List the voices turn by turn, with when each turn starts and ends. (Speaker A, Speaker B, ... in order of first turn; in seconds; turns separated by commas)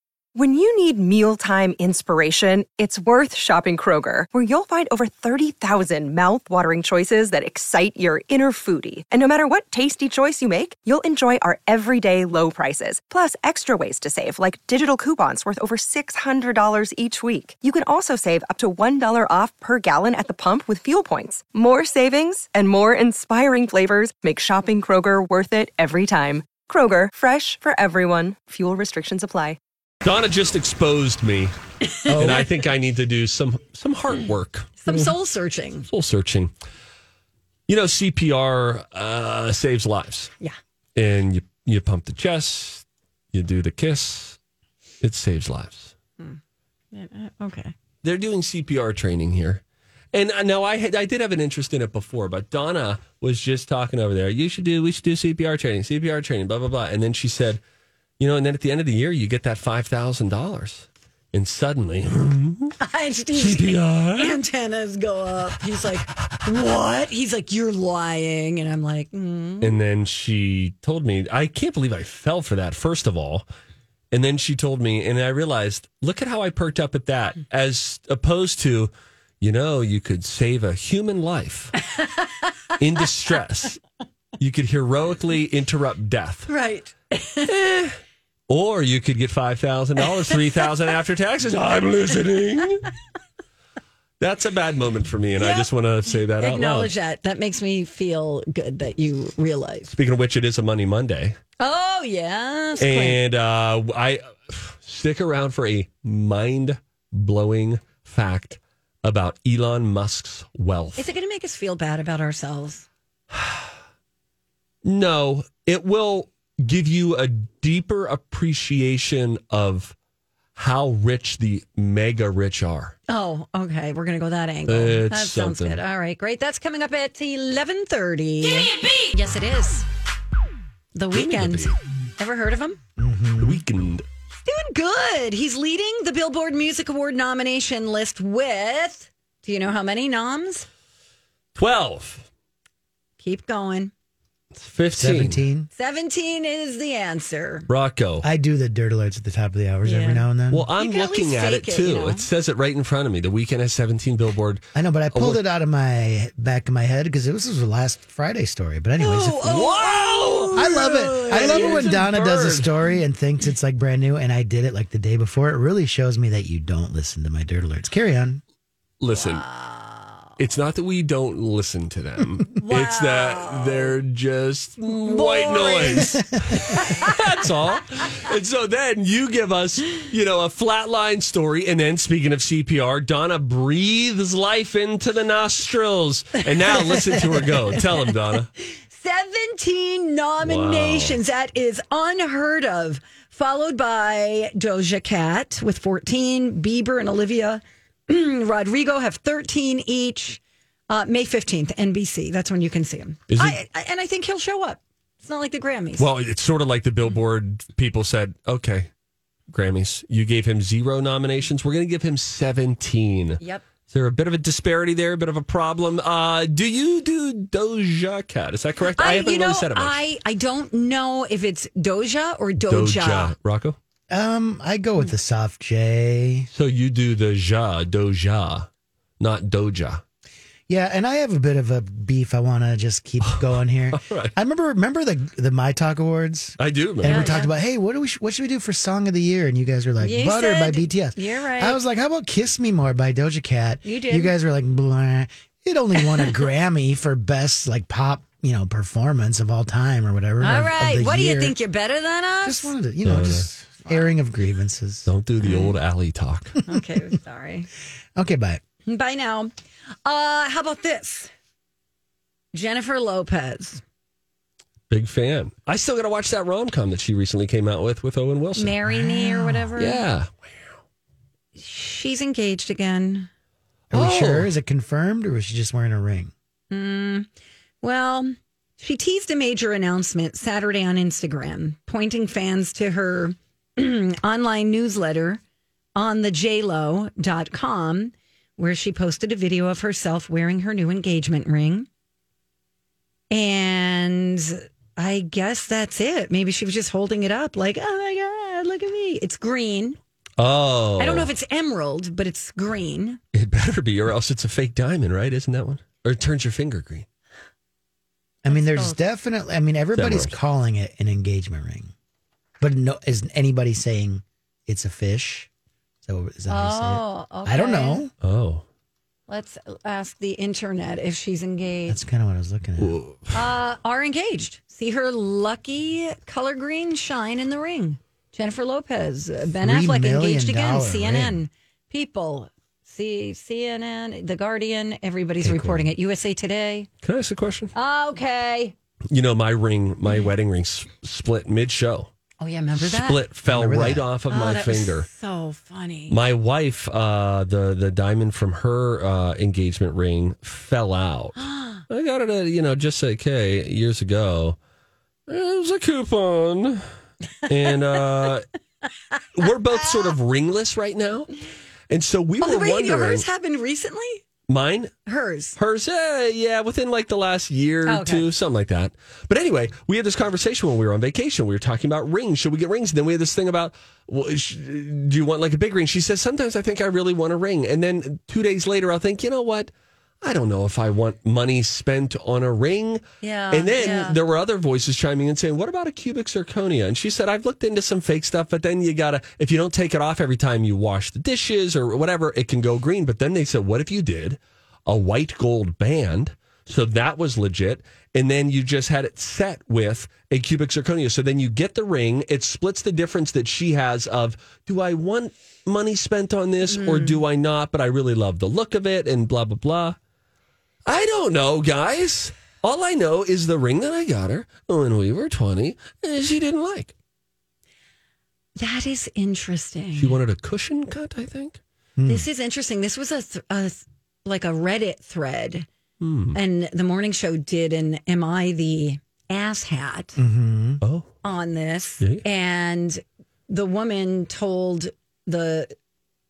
Speaker A: 0.3-29.6, Speaker B: 30.0-31.5, Speaker C: 31.9-32.5, Speaker B: 32.1-35.1, Speaker C: 34.8-35.9, Speaker B: 35.9-36.5, Speaker B: 37.7-40.3, Speaker B: 41.0-44.4, Speaker B: 45.0-45.9, Speaker C: 46.9-47.7, Speaker B: 48.0-49.6, Speaker B: 50.1-57.6, Speaker B: 58.2-62.8, Speaker C: 62.8-69.8, Speaker B: 63.3-64.4, Speaker B: 65.8-66.8, Speaker B: 69.6-73.5, Speaker B: 74.1-81.7, Speaker C: 81.8-83.0, Speaker B: 82.8-83.8, Speaker B: 84.4-86.5, Speaker C: 86.5-87.5, Speaker B: 87.5-88.0, Speaker B: 88.5-92.9, Speaker C: 90.0-90.7, Speaker B: 94.2-96.9, Speaker C: 95.4-99.9, Speaker B: 99.9-101.4, Speaker C: 101.6-103.2, Speaker B: 102.8-111.1, Speaker C: 111.0-112.9, Speaker B: 113.3-113.7, Speaker B: 114.8-120.0, Speaker B: 120.6-123.0, Speaker C: 123.1-129.9, Speaker B: 124.7-125.8, Speaker C: 130.9-132.8, Speaker B: 131.1-131.8, Speaker D: 133.0-133.6, Speaker B: 133.4-134.1, Speaker C: 134.3-140.7, Speaker B: 141.6-142.3, Speaker C: 143.2-143.9, Speaker B: 144.5-145.4, Speaker D: 144.9-145.7, Speaker C: 145.8-147.7, Speaker B: 147.7-148.2, Speaker D: 148.2-150.7, Speaker C: 149.8-150.3, Speaker B: 150.5-155.4, Speaker C: 150.8-152.3, Speaker D: 154.8-159.5, Speaker C: 159.0-162.0, Speaker B: 159.4-162.7, Speaker D: 160.6-168.4, Speaker B: 169.0-169.4, Speaker C: 169.1-170.3, Speaker B: 170.4-188.5, Speaker C: 172.6-173.9, Speaker C: 174.8-177.2, Speaker D: 175.9-176.8, Speaker C: 186.7-187.2, Speaker C: 188.7-206.1, Speaker B: 190.4-191.2, Speaker B: 203.3-203.6, Speaker B: 206.0-208.9, Speaker B: 209.5-220.0, Speaker C: 218.9-223.3, Speaker B: 222.7-223.8, Speaker D: 224.1-226.5, Speaker B: 226.5-228.7, Speaker B: 229.2-230.0, Speaker D: 230.7-251.6, Speaker B: 233.2-234.3, Speaker B: 236.6-237.4, Speaker C: 237.1-237.5, Speaker C: 240.0-241.8, Speaker C: 243.8-244.3, Speaker C: 246.0-246.4, Speaker C: 250.4-252.8, Speaker D: 252.4-255.1, Speaker B: 253.1-253.5, Speaker C: 253.8-254.1, Speaker B: 255.1-256.6, Speaker C: 255.4-255.8, Speaker C: 256.7-257.7, Speaker D: 258.2-258.6, Speaker C: 258.9-259.5, Speaker C: 260.1-261.3, Speaker C: 262.5-263.8, Speaker B: 264.9-268.8, Speaker C: 268.6-270.0, Speaker D: 268.9-269.7, Speaker B: 269.8-270.8, Speaker C: 271.6-273.3, Speaker B: 273.9-274.5, Speaker D: 273.9-276.3, Speaker C: 276.7-277.3, Speaker C: 277.8-285.4, Speaker C: 286.0-291.9, Speaker C: 293.3-300.0, Speaker B: 300.4-301.3, Speaker C: 301.0-303.2, Speaker B: 303.3-307.1, Speaker D: 308.4-311.9, Speaker C: 308.5-309.0, Speaker B: 309.9-310.4, Speaker D: 312.6-315.5, Speaker D: 316.0-318.1, Speaker C: 316.5-318.0, Speaker B: 318.2-318.7, Speaker C: 319.3-322.0, Speaker D: 321.9-323.0, Speaker B: 322.8-323.3, Speaker C: 323.3-336.9, Speaker D: 329.6-331.4, Speaker D: 335.4-335.9, Speaker B: 337.0-337.7, Speaker C: 337.8-338.7, Speaker B: 339.1-342.1, Speaker C: 342.4-343.2, Speaker B: 342.8-345.1, Speaker D: 343.5-344.0, Speaker C: 344.3-346.2, Speaker B: 346.1-354.6, Speaker C: 351.4-351.9, Speaker B: 355.3-356.9, Speaker B: 357.5-358.5, Speaker C: 357.7-358.2, Speaker C: 359.1-360.1, Speaker B: 359.4-361.3, Speaker B: 361.9-363.3, Speaker C: 362.4-364.2, Speaker B: 364.5-364.9, Speaker C: 365.1-365.6, Speaker B: 365.6-379.7, Speaker C: 367.9-368.3, Speaker B: 380.2-410.0, Speaker C: 383.2-384.2, Speaker C: 406.7-407.2, Speaker B: 410.9-416.9, Speaker C: 418.6-420.2, Speaker B: 420.0-421.6, Speaker D: 422.0-422.3, Speaker C: 422.1-425.7, Speaker B: 426.0-426.4, Speaker C: 426.3-430.2, Speaker D: 430.2-430.8, Speaker B: 430.8-431.1, Speaker C: 431.2-435.8